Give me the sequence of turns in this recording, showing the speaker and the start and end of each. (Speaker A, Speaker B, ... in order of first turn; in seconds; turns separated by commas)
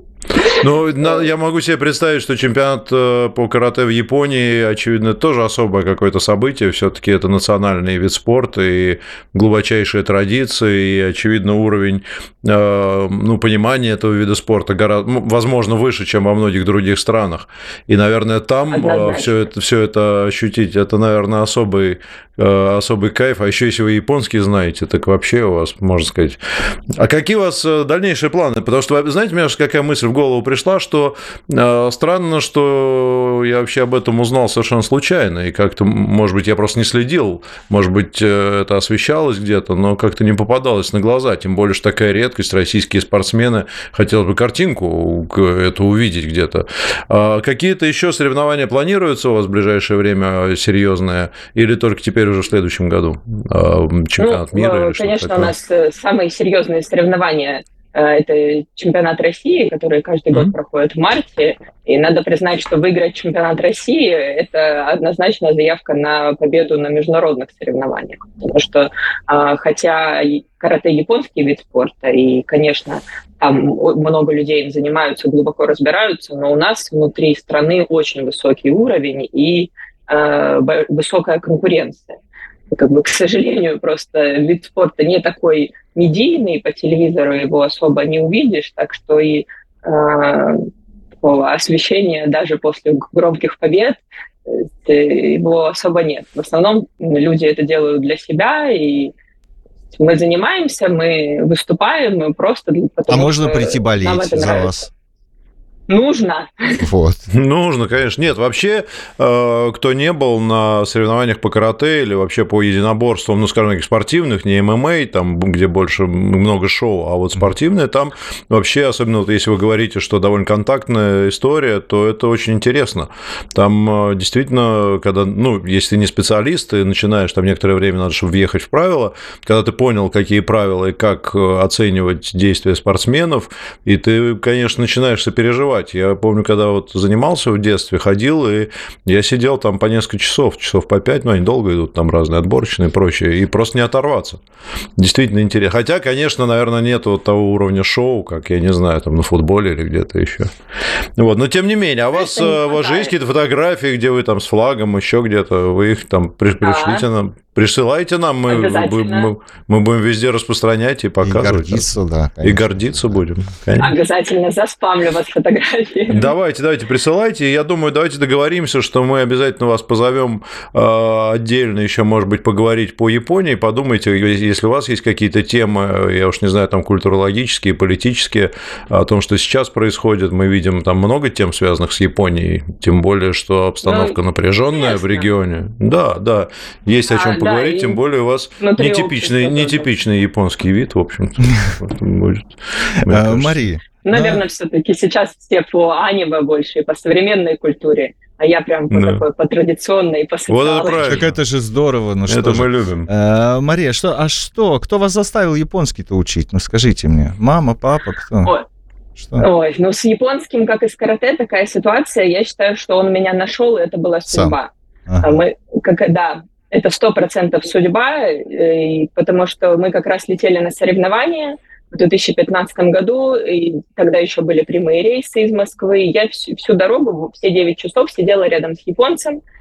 Speaker A: 0.4-1.3, Speaker B: 0.6-26.4, Speaker A: 18.7-19.3, Speaker B: 27.0-55.5, Speaker A: 54.2-82.2, Speaker A: 82.7-90.7, Speaker A: 91.2-99.1, Speaker A: 99.9-104.8, Speaker C: 103.1-104.9, Speaker A: 105.9-106.8, Speaker C: 106.8-107.2, Speaker B: 107.3-144.4, Speaker B: 145.0-150.5, Speaker B: 151.2-161.9, Speaker A: 152.1-153.1, Speaker A: 156.6-157.1, Speaker A: 158.5-159.3, Speaker C: 161.2-163.2, Speaker B: 162.4-163.9, Speaker A: 163.8-166.3, Speaker B: 166.1-193.6, Speaker A: 183.8-185.3, Speaker A: 187.1-188.0, Speaker A: 188.6-189.9, Speaker C: 193.0-194.4, Speaker A: 194.0-201.2, Speaker B: 198.9-199.2, Speaker B: 200.5-201.3, Speaker C: 201.0-208.5, Speaker B: 202.3-203.1, Speaker C: 209.2-209.5, Speaker A: 209.4-214.7, Speaker C: 214.3-214.6, Speaker C: 215.1-215.4, Speaker A: 215.2-229.4